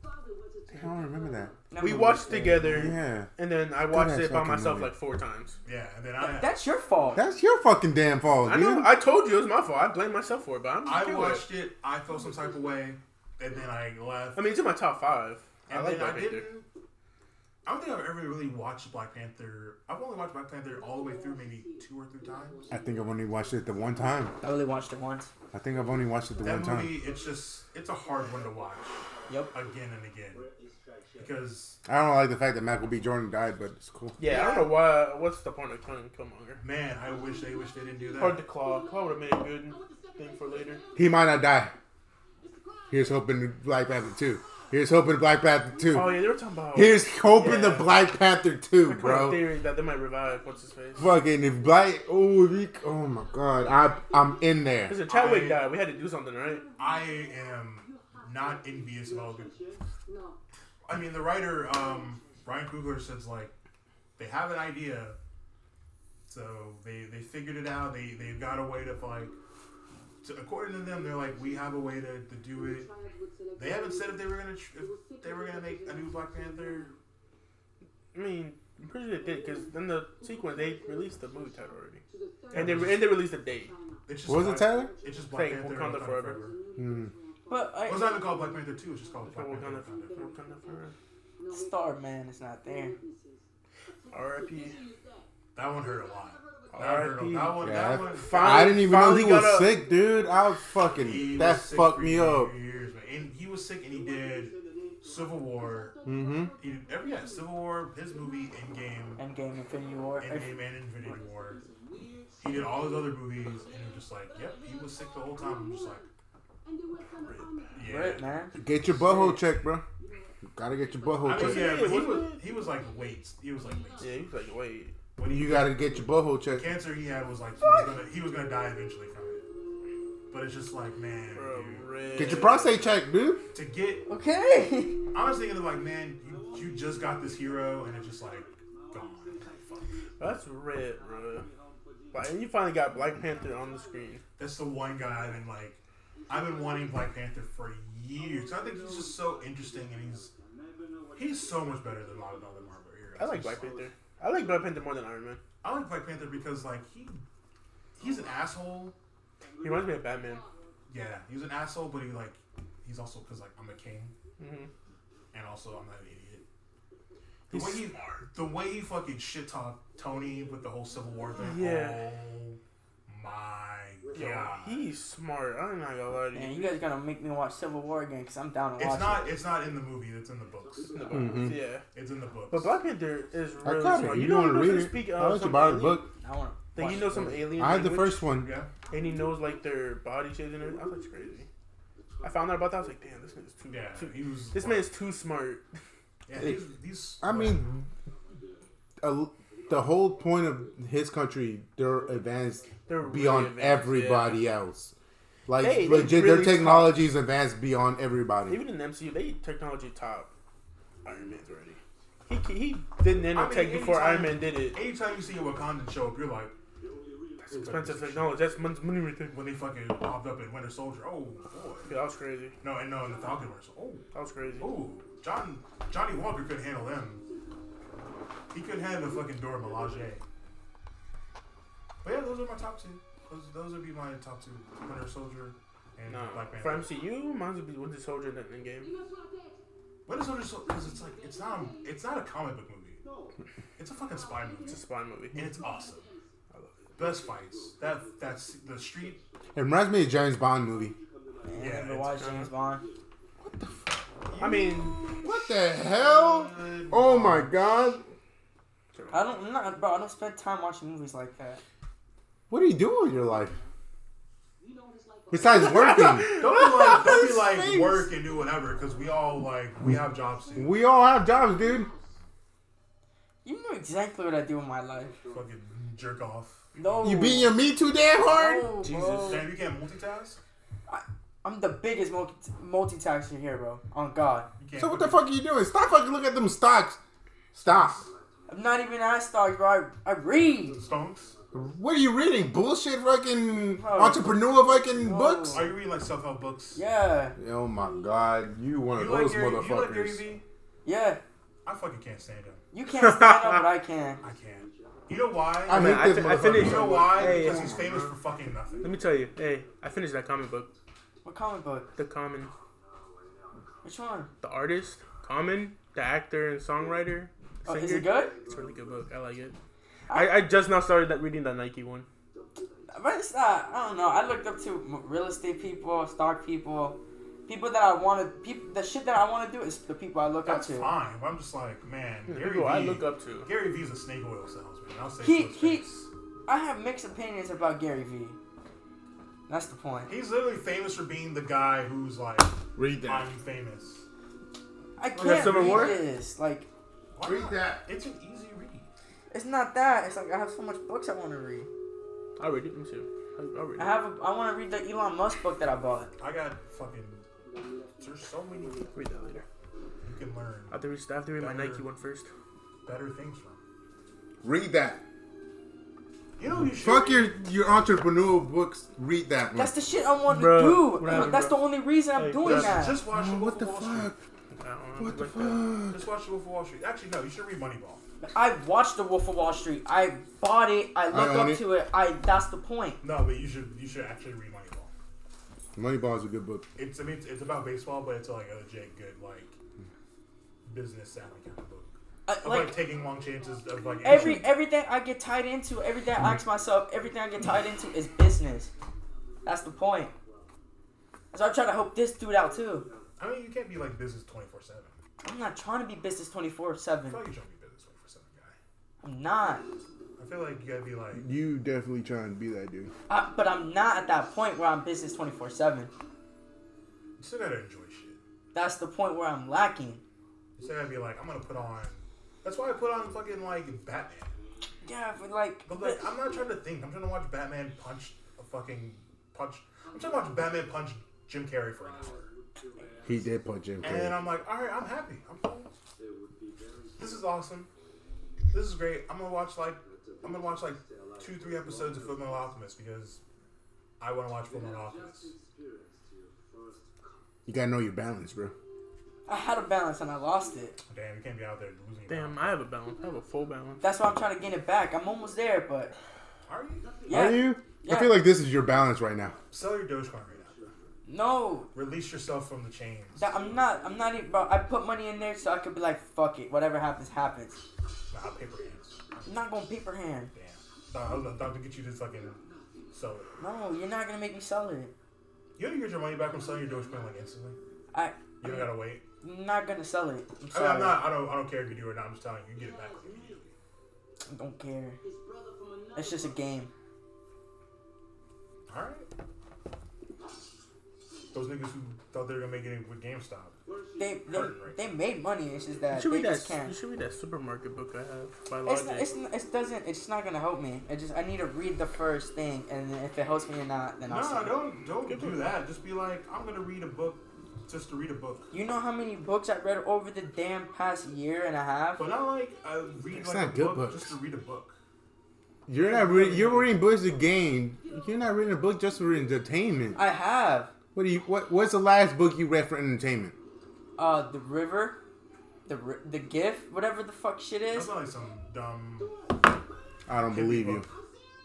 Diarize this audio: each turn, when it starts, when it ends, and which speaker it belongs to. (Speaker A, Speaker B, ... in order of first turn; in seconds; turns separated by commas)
Speaker A: 0.7-1.5, Speaker B: 1.7-2.7, Speaker C: 1.8-5.6, Speaker A: 2.3-3.3, Speaker A: 3.8-4.9, Speaker D: 5.7-6.5, Speaker B: 6.2-7.2, Speaker A: 7.2-8.9, Speaker C: 8.5-11.4, Speaker D: 10.8-14.5, Speaker C: 14.3-16.5, Speaker D: 15.7-16.7, Speaker D: 17.6-22.7, Speaker A: 22.7-24.3, Speaker B: 24.4-25.3, Speaker A: 25.5-27.0, Speaker D: 26.4-30.5, Speaker B: 29.3-29.5, Speaker D: 31.2-31.8, Speaker A: 31.9-34.2, Speaker C: 34.2-36.6, Speaker D: 34.2-34.7, Speaker D: 36.6-38.4, Speaker C: 38.2-40.8, Speaker A: 41.0-41.7, Speaker A: 42.9-49.4, Speaker C: 45.9-47.9, Speaker C: 48.9-51.1, Speaker A: 51.0-55.0, Speaker C: 54.9-56.7, Speaker D: 55.1-55.7, Speaker D: 56.8-59.6, Speaker D: 60.9-63.5, Speaker D: 64.2-65.2, Speaker D: 66.3-69.4, Speaker D: 70.2-72.9, Speaker D: 73.6-76.9, Speaker C: 78.1-82.0, Speaker D: 82.5-83.1, Speaker C: 82.5-83.7, Speaker D: 84.1-86.6, Speaker A: 84.3-84.9, Speaker C: 85.3-86.4, Speaker A: 86.8-87.1, Speaker B: 87.5-88.1, Speaker D: 87.9-90.2, Speaker C: 89.2-90.9, Speaker B: 91.5-93.0, Speaker C: 94.1-94.8, Speaker D: 95.5-98.8, Speaker C: 96.7-99.8, Speaker A: 97.6-102.5, Speaker D: 101.0-106.0, Speaker A: 106.1-106.5, Speaker D: 106.6-109.2, Speaker B: 109.2-110.5, Speaker D: 110.2-111.7, Speaker D: 112.4-116.1, Speaker C: 117.2-117.7, Speaker D: 117.7-118.3, Speaker B: 117.8-118.6, Speaker A: 118.6-119.8, Speaker A: 120.5-121.9, Speaker D: 121.2-124.2, Speaker C: 121.3-122.4, Speaker C: 124.0-125.0, Speaker D: 125.2-126.0, Speaker A: 125.2-126.7, Speaker D: 126.5-129.4, Speaker D: 130.3-132.7, Speaker C: 131.3-132.8, Speaker A: 132.2-133.4, Speaker D: 133.5-134.1, Speaker B: 134.1-135.0, Speaker D: 135.1-139.9, Speaker C: 140.2-141.5, Speaker C: 142.1-144.2, Speaker D: 144.4-150.3, Speaker D: 151.1-153.7, Speaker C: 153.2-155.4, Speaker D: 155.6-157.2, Speaker D: 158.0-159.0, Speaker C: 159.6-160.4, Speaker D: 160.9-164.1, Speaker C: 164.4-164.7, Speaker D: 165.3-166.4, Speaker C: 167.5-168.2, Speaker D: 167.5-174.9, Speaker C: 171.4-172.1, Speaker C: 174.1-176.8, Speaker B: 176.3-179.3, Speaker D: 178.8-181.2, Speaker C: 180.9-181.9, Speaker A: 181.1-181.6, Speaker D: 181.9-182.8, Speaker C: 182.5-186.0, Speaker A: 183.6-186.1, Speaker B: 186.0-187.3, Speaker C: 186.8-188.2, Speaker A: 187.6-188.5, Speaker D: 188.3-188.7, Speaker C: 188.9-191.5, Speaker C: 192.2-195.7, Speaker D: 193.7-194.9, Speaker D: 196.3-197.6, Speaker A: 197.2-197.9, Speaker A: 199.0-204.9, Speaker C: 202.9-204.4, Speaker A: 205.5-208.6, Speaker C: 205.6-207.0, Speaker C: 208.5-210.3, Speaker C: 211.0-214.8, Speaker D: 213.3-216.6, Speaker C: 217.4-219.4, Speaker D: 217.5-218.4, Speaker D: 219.3-221.9, Speaker C: 221.9-222.6, Speaker D: 222.6-224.1, Speaker C: 224.1-224.7, Speaker D: 224.6-227.2, Speaker D: 228.5-230.2, Speaker D: 232.0-236.9, Speaker C: 236.1-238.9, Speaker D: 240.1-243.0, Speaker D: 243.8-244.8, Speaker C: 244.7-245.6, Speaker D: 245.3-246.1, Speaker C: 246.5-246.8, Speaker D: 247.0-249.2, Speaker A: 249.6-251.0, Speaker B: 251.4-252.9, Speaker D: 251.6-252.2, Speaker C: 252.2-252.5, Speaker A: 253.4-253.8, Speaker D: 254.2-257.5, Speaker C: 254.4-255.0, Speaker A: 255.2-258.0, Speaker C: 258.9-259.2, Speaker B: 259.1-261.6, Speaker A: 262.5-263.6, Speaker A: 265.3-266.4, Speaker C: 265.4-267.8, Speaker D: 266.4-270.8, Speaker A: 270.6-271.9, Speaker B: 273.4-275.2, Speaker D: 275.3-277.2, Speaker B: 276.8-277.6, Speaker A: 277.0-278.7, Speaker B: 278.2-279.5, Speaker C: 278.8-279.5, Speaker D: 279.3-280.4, Speaker B: 280.9-284.5, Speaker D: 284.6-285.2, Speaker A: 284.8-287.0, Speaker A: 287.5-288.1, Speaker D: 287.7-288.1, Speaker B: 288.5-290.8, Speaker D: 290.7-291.4, Speaker A: 291.5-295.6, Speaker B: 293.8-294.4, Speaker B: 295.0-295.8, Speaker D: 295.5-296.8, Speaker B: 296.8-297.4, Speaker A: 297.4-300.2, Speaker D: 298.9-300.4, Speaker B: 300.9-301.2, Speaker D: 301.6-302.6, Speaker B: 302.7-304.2, Speaker C: 302.9-303.6, Speaker D: 304.2-308.9, Speaker A: 305.7-308.1, Speaker C: 305.7-307.7, Speaker C: 308.8-310.7, Speaker B: 311.2-311.9, Speaker C: 312.0-312.5, Speaker B: 313.8-314.3, Speaker C: 314.4-319.6, Speaker B: 317.7-318.4, Speaker B: 320.1-320.4, Speaker C: 320.1-322.1, Speaker B: 322.9-330.9, Speaker D: 330.4-336.1, Speaker C: 332.3-333.5, Speaker B: 335.2-335.9, Speaker B: 336.5-338.4, Speaker B: 339.5-340.1, Speaker D: 340.1-344.0, Speaker A: 342.8-343.3, Speaker B: 345.0-346.7, Speaker C: 345.2-346.0, Speaker D: 345.2-346.0, Speaker D: 347.1-348.9, Speaker A: 347.2-347.8, Speaker B: 349.3-351.7, Speaker C: 352.4-354.0, Speaker B: 353.8-356.1, Speaker D: 356.2-357.2, Speaker D: 358.0-358.9, Speaker C: 358.9-359.4, Speaker D: 360.0-360.8, Speaker C: 360.7-362.3, Speaker D: 361.4-361.9, Speaker D: 362.9-363.6, Speaker A: 364.4-365.0, Speaker D: 366.4-367.3, Speaker A: 366.6-369.7, Speaker B: 369.6-373.0, Speaker C: 370.3-371.6, Speaker C: 372.1-372.8, Speaker D: 372.4-374.1, Speaker A: 373.1-374.2, Speaker C: 374.6-375.6, Speaker A: 375.0-376.0, Speaker D: 375.9-378.0, Speaker B: 378.2-383.0, Speaker A: 381.1-381.6, Speaker D: 383.0-384.9, Speaker A: 385.8-386.7, Speaker D: 386.8-389.6, Speaker D: 390.7-394.5, Speaker B: 392.3-392.8, Speaker B: 394.0-398.7, Speaker A: 394.1-394.4, Speaker B: 399.4-400.1, Speaker B: 401.3-402.9, Speaker D: 403.2-404.9, Speaker B: 405.2-407.2, Speaker D: 407.1-408.6, Speaker B: 409.0-409.7, Speaker D: 410.2-411.2, Speaker A: 411.1-412.9, Speaker B: 413.1-415.9, Speaker D: 417.2-418.2, Speaker B: 418.5-420.0, Speaker D: 420.6-424.3, Speaker B: 424.8-426.1, Speaker D: 425.7-432.3, Speaker A: 433.0-434.2, Speaker D: 433.8-435.7, Speaker D: 437.0-437.7, Speaker D: 438.5-443.2, Speaker D: 444.0-445.3, Speaker A: 447.5-448.5, Speaker B: 449.3-450.8, Speaker D: 450.9-452.6, Speaker C: 452.1-453.8, Speaker B: 453.8-455.9, Speaker D: 456.5-457.0, Speaker B: 457.1-458.2, Speaker A: 457.1-459.4, Speaker D: 459.5-460.7, Speaker B: 461.1-461.7, Speaker D: 461.7-463.3, Speaker B: 463.2-467.6, Speaker D: 468.1-469.2, Speaker B: 469.3-470.3, Speaker D: 470.3-472.4, Speaker D: 472.9-473.3, Speaker B: 473.4-474.9, Speaker D: 475.6-477.6, Speaker B: 477.9-478.7, Speaker D: 478.4-479.0, Speaker B: 479.2-481.0, Speaker D: 480.5-483.5, Speaker B: 484.3-485.0, Speaker B: 485.9-486.7, Speaker D: 488.7-489.1, Speaker D: 491.3-493.6, Speaker B: 494.0-496.8, Speaker D: 494.3-494.8, Speaker C: 495.9-499.1, Speaker B: 498.6-504.6, Speaker D: 504.1-508.5, Speaker C: 505.1-505.5, Speaker B: 508.5-512.1, Speaker D: 512.0-514.8, Speaker A: 513.2-514.1, Speaker A: 515.7-520.0, Speaker C: 515.8-516.7, Speaker B: 520.0-520.7, Speaker A: 521.0-523.4, Speaker B: 524.0-525.0, Speaker B: 525.7-527.9, Speaker D: 527.7-529.1, Speaker A: 530.1-530.9, Speaker D: 530.3-530.9